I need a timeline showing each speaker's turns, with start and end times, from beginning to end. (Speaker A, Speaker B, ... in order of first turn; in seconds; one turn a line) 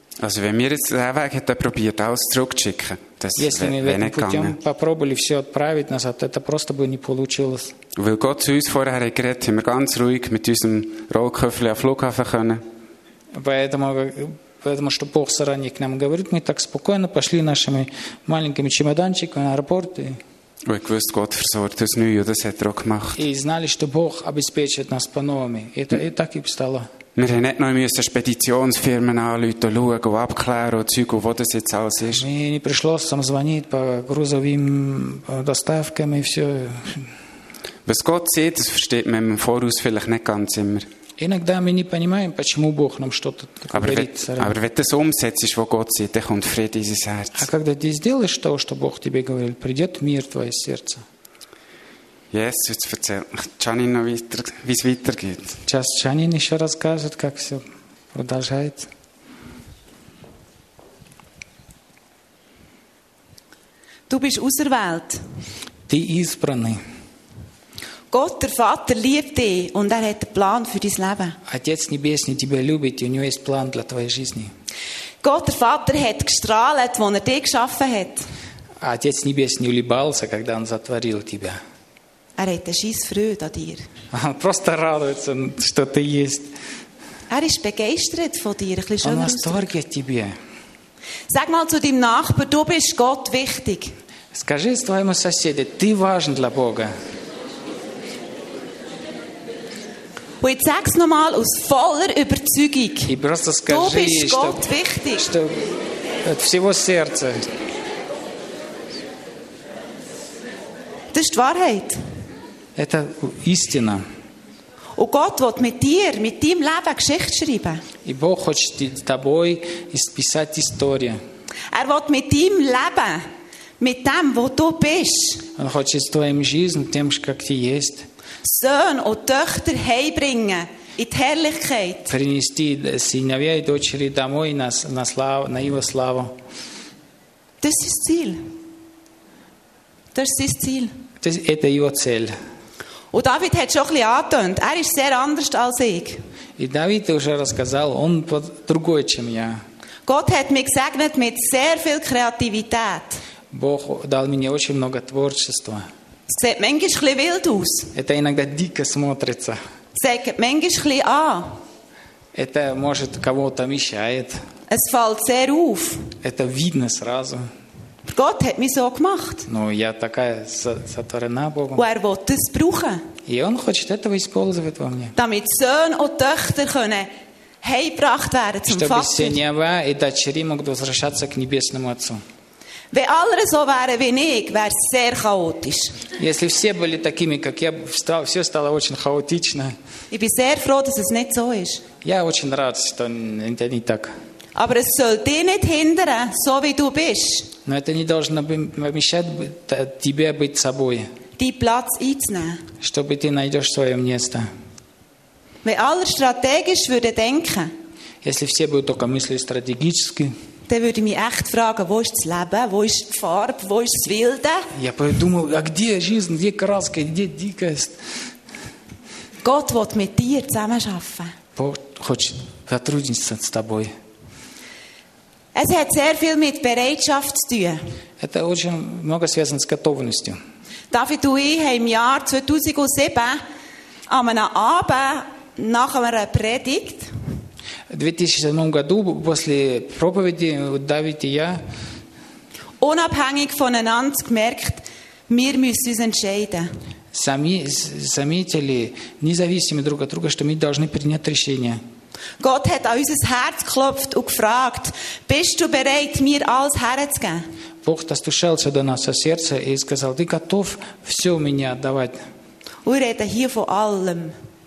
Speaker A: 0.2-4.6
Speaker B: 3.4-7.7
Speaker A: 8.0-12.6
Speaker B: 13.3-20.2
Speaker A: 20.6-23.2
Speaker B: 23.2-26.9
Speaker A: 27.1-32.2
Speaker B: 32.1-37.1
Speaker A: 37.9-40.9
Speaker B: 41.2-44.5
Speaker A: 43.7-47.5
Speaker B: 47.4-51.0
Speaker A: 52.3-55.6
Speaker B: 55.6-58.9
Speaker C: 64.1-65.2
Speaker B: 65.9-66.8
Speaker C: 68.1-71.4
Speaker B: 71.4-74.5
Speaker C: 75.2-78.2
Speaker B: 78.8-81.6
Speaker C: 82.4-83.9
Speaker B: 84.1-86.5
Speaker C: 87.3-89.7
Speaker B: 89.0-90.3
Speaker C: 91.3-94.0
Speaker B: 94.3-96.9
Speaker C: 100.4-103.1
Speaker B: 103.1-107.4
Speaker C: 103.7-105.3
Speaker C: 111.1-112.0
Speaker B: 112.8-114.0
Speaker C: 115.0-117.8
Speaker B: 118.0-121.2
Speaker C: 121.7-123.2
Speaker C: 123.8-125.5
Speaker B: 125.5-128.1
Speaker C: 128.4-132.1
Speaker B: 132.1-136.3
Speaker C: 137.6-138.5
Speaker C: 140.1-140.9
Speaker B: 141.2-142.3
Speaker C: 143.1-146.2
Speaker B: 146.6-149.6
Speaker C: 150.1-153.2
Speaker B: 153.5-155.8
Speaker C: 156.3-157.9
Speaker B: 157.9-159.6
Speaker C: 159.9-161.6
Speaker B: 162.3-164.4
Speaker C: 164.7-166.1
Speaker B: 166.2-167.5
Speaker C: 168.1-169.4
Speaker B: 169.5-171.8
Speaker C: 171.8-173.0
Speaker B: 173.2-175.1
Speaker C: 175.2-179.4
Speaker B: 178.7-182.2
Speaker C: 182.9-186.0
Speaker B: 186.2-189.7
Speaker C: 190.1-191.9
Speaker B: 192.0-194.1
Speaker C: 194.5-197.5
Speaker B: 197.6-201.1
Speaker C: 201.4-202.6
Speaker B: 202.8-204.5
Speaker C: 205.6-207.7
Speaker B: 208.2-210.3
Speaker C: 210.7-214.7
Speaker B: 214.7-218.0
Speaker C: 219.4-221.3
Speaker B: 221.6-223.9
Speaker C: 225.5-227.8
Speaker B: 228.2-230.4
Speaker C: 230.9-233.4
Speaker C: 234.1-237.1
Speaker B: 237.9-241.6
Speaker C: 242.8-246.7
Speaker B: 247.1-251.8
Speaker C: 252.4-257.4
Speaker B: 257.8-262.2
Speaker C: 262.8-264.4